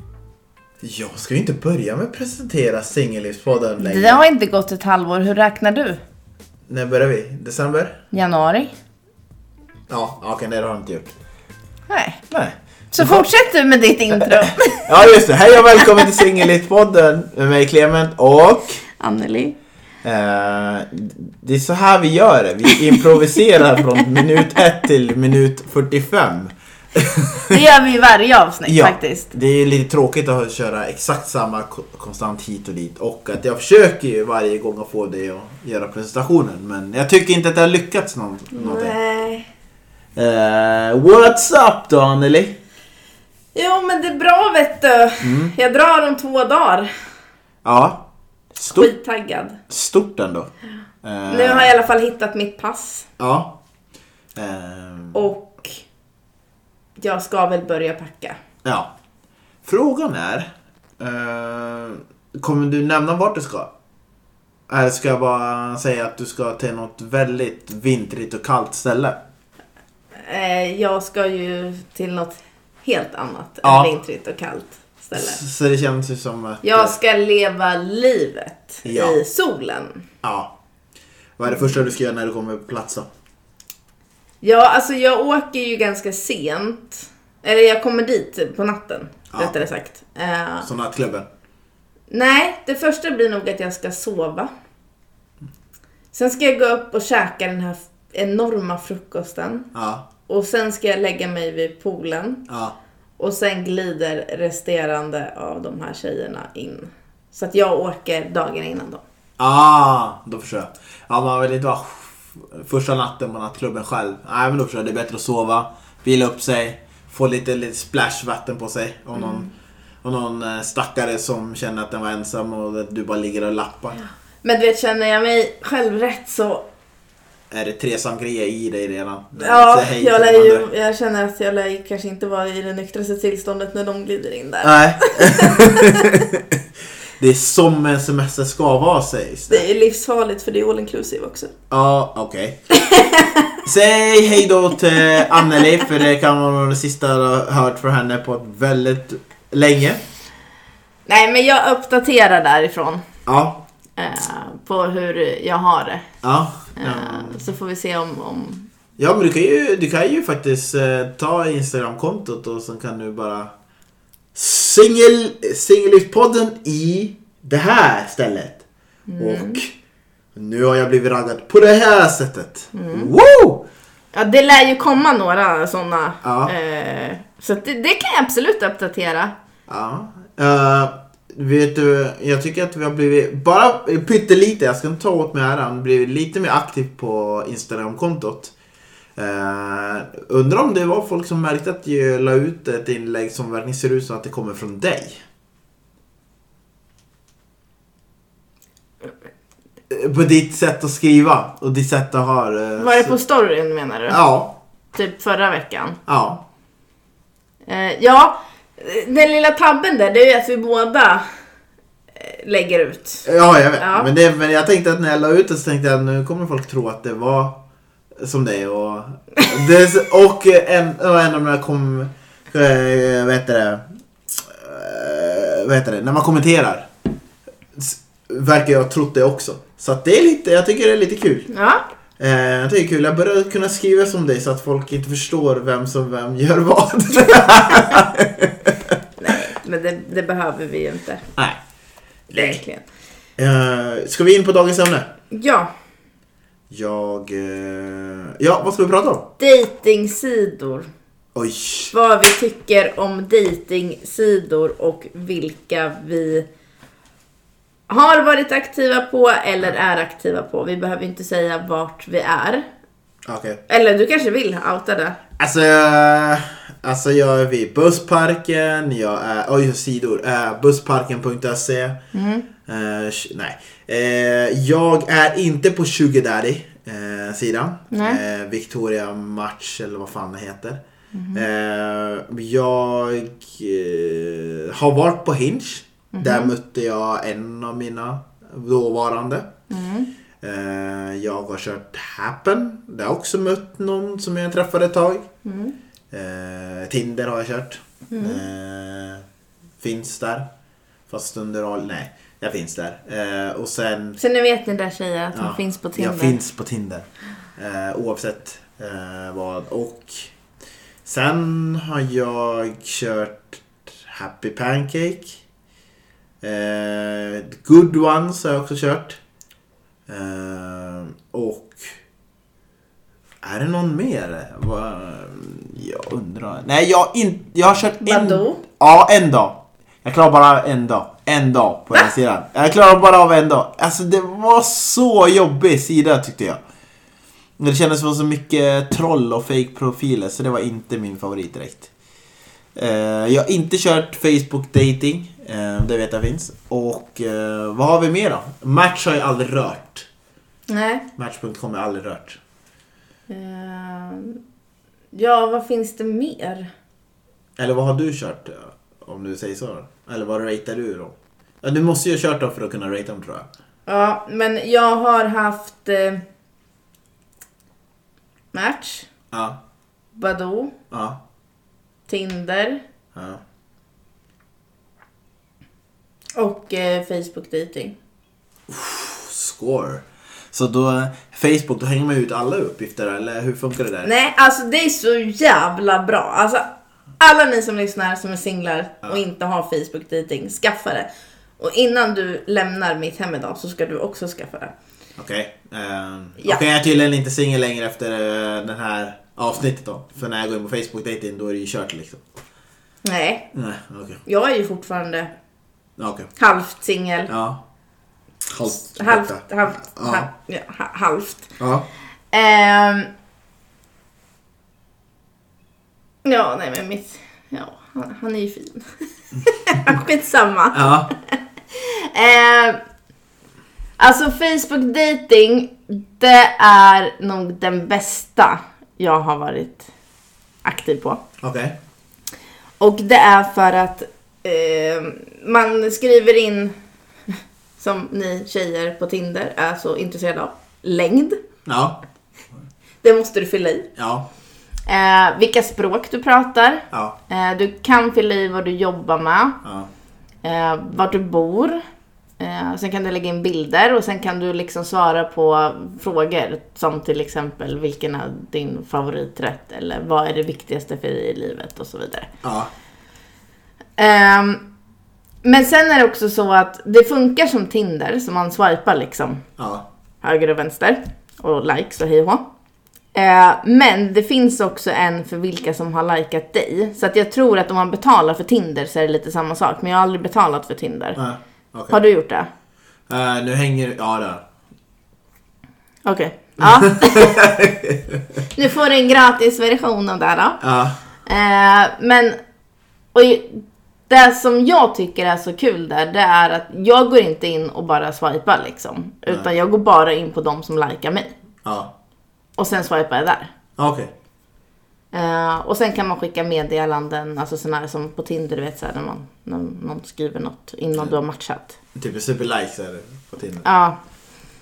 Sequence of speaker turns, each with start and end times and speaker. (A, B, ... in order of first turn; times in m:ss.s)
0:00.8-0:04.2 A
0:03.8-0:06.0 B
0:06.7-0:08.0 A
0:08.1-0:08.7 B
0:09.9-0:11.1 A
0:11.9-0:12.2 B
0:12.3-0:13.3 A
0:12.9-0:14.9 B
0:14.1-0:18.8 A
0:19.0-0:19.6 B
0:20.0-0:27.6 A
0:27.5-0:29.3 B
0:28.7-0:39.0 A
0:38.5-0:39.5 B
0:40.2-0:42.6 A
0:43.6-0:46.9 B
0:45.2-0:45.5 A
0:47.6-0:48.9 A
0:48.8-0:49.6 B
0:49.7-0:50.5 A
0:51.0-0:51.8 A
0:51.3-0:53.1 B
0:53.2-0:53.6 A
0:54.3-0:55.3 A
0:55.1-0:55.8 B
0:57.0-0:58.4 B
0:58.6-0:58.9 A
0:59.6-1:03.7 A
1:04.7-1:09.2 A
1:10.2-1:15.4 B
1:13.6-1:13.9 A
1:15.1-1:17.0 A
1:16.6-1:20.0 B
1:18.8-1:19.2 A
1:20.2-1:20.6 A
1:21.4-1:23.1 A
1:24.4-1:30.7 B
1:29.3-1:29.6 A
1:30.6-1:31.3 A
1:32.1-1:34.5 B
1:36.1-1:39.7 B
1:39.7-1:40.1 A
1:40.3-1:42.4 B
1:42.5-1:42.8 A
1:43.2-1:49.0 B
1:49.4-1:59.5 A
1:59.2-1:59.5 B
2:00.0-2:04.0 A
2:04.4-2:06.7 B
2:07.5-2:10.7 A
2:09.4-2:16.2 B
2:14.6-2:16.6 A
2:17.2-2:19.7 A
2:19.5-2:21.5 B
2:21.7-2:22.6 A
2:22.7-2:23.6 B
2:23.6-2:30.0 A
2:25.3-2:25.8 B
2:31.1-2:33.0 B
2:33.2-2:33.7 A
2:34.0-2:36.1 B
2:36.2-2:37.4 A
2:36.8-2:38.7 B
2:39.0-2:43.5 A
2:44.4-2:48.6 A
2:49.1-2:49.6 B
2:49.2-2:49.7 A
2:50.4-2:53.7 A
2:52.7-2:53.1 B
2:54.1-2:59.4 B
2:56.2-2:56.5 A
2:59.7-3:08.6 A
3:09.2-3:15.2 A
3:19.9-3:23.2 A
3:22.8-3:24.2 B
3:24.1-3:24.6 A
3:24.9-3:26.0 B
3:26.1-3:26.4 A
3:27.7-3:31.2 B
3:32.2-3:33.2 B
3:33.2-3:37.6 A
3:33.8-3:34.1 B
3:38.2-3:46.9 A
3:47.7-3:51.5 A
3:51.5-3:51.8 B
3:52.2-3:59.0 A
3:59.2-4:01.2 B
4:02.3-4:02.6 A
4:02.3-4:02.9 B
4:03.4-4:05.1 A
4:05.3-4:05.7 B
4:06.7-4:09.3 A
4:09.4-4:10.9 B
4:11.4-4:11.9 A
4:11.9-4:16.5 B
4:17.9-4:22.7 B
4:23.2-4:23.6 A
4:23.7-4:25.2 B
4:25.4-4:32.0 A
4:32.1-4:32.5 B
4:32.7-4:40.8 A
4:37.9-4:38.2 B
4:41.1-4:41.5 B
4:41.3-4:49.5 A
4:46.1-4:46.5 B
4:49.7-4:50.1 B
4:50.4-4:55.3 A
4:55.4-4:55.8 B
4:56.1-4:59.2 A
4:58.1-4:58.4 B
4:59.8-5:00.5 A
5:01.1-5:04.2 A
5:04.2-5:06.4 B
5:05.3-5:10.3 A
5:11.0-5:15.4 A
5:16.4-5:19.2 A
5:20.1-5:21.9 A
5:23.4-5:36.6 A
5:28.0-5:28.6 B
5:37.6-5:41.9 A
5:42.8-5:50.1 A
5:50.7-5:51.0 B
5:51.2-5:52.4 A
5:53.3-5:54.4 B
5:55.1-5:56.7 B
5:57.6-6:03.5 A
6:03.9-6:06.2 B
6:08.5-6:09.1 B
6:09.3-6:09.6 A
6:10.2-6:10.7 B
6:10.9-6:11.2 A
6:12.1-6:12.8 B
6:13.2-6:13.4 A
6:16.4-6:18.0 B
6:18.7-6:24.1 A
6:24.0-6:31.1 B
6:31.6-6:34.7 B
6:35.2-6:42.2 A
6:43.0-6:43.5 B
6:43.5-6:44.2 A
6:44.2-6:45.3 B
6:46.0-6:46.3 A
6:46.4-6:47.3 B
6:47.3-6:47.6 A
6:48.5-6:50.3 A
6:48.7-6:51.6 B
6:51.6-6:51.9 A
6:52.3-6:53.1 B
6:56.2-7:01.2 B
7:00.7-7:01.1 A
7:01.7-7:02.8 B
7:04.0-7:09.9 B
7:10.6-7:11.2 B
7:11.4-7:11.8 A
7:12.8-7:16.8 B
7:17.8-7:21.4 B
7:21.6-7:22.0 A
7:23.0-7:23.9 B
7:24.0-7:24.3 A
7:24.9-7:29.6 B
7:26.9-7:27.2 A
7:29.6-7:29.9 A
7:30.4-7:31.8 B
7:32.4-7:42.3 B
7:42.4-7:42.7 A
7:44.0-7:44.6 B
7:45.4-7:49.4 B
7:49.6-7:49.9 A
7:50.2-7:52.4 B
7:53.1-8:01.2 B
8:01.2-8:02.0 A
8:01.9-8:02.5 B
8:03.1-8:04.4 A
8:06.0-8:07.4 B
8:06.6-8:08.4 A
8:08.5-8:10.6 B
8:10.6-8:11.0 A
8:11.2-8:12.4 B
8:13.1-8:21.4 B
8:21.6-8:21.9 A
8:22.6-8:23.5 B
8:23.8-8:24.1 A
8:25.1-8:31.8 B
8:32.0-8:33.6 A
8:33.6-8:34.0 B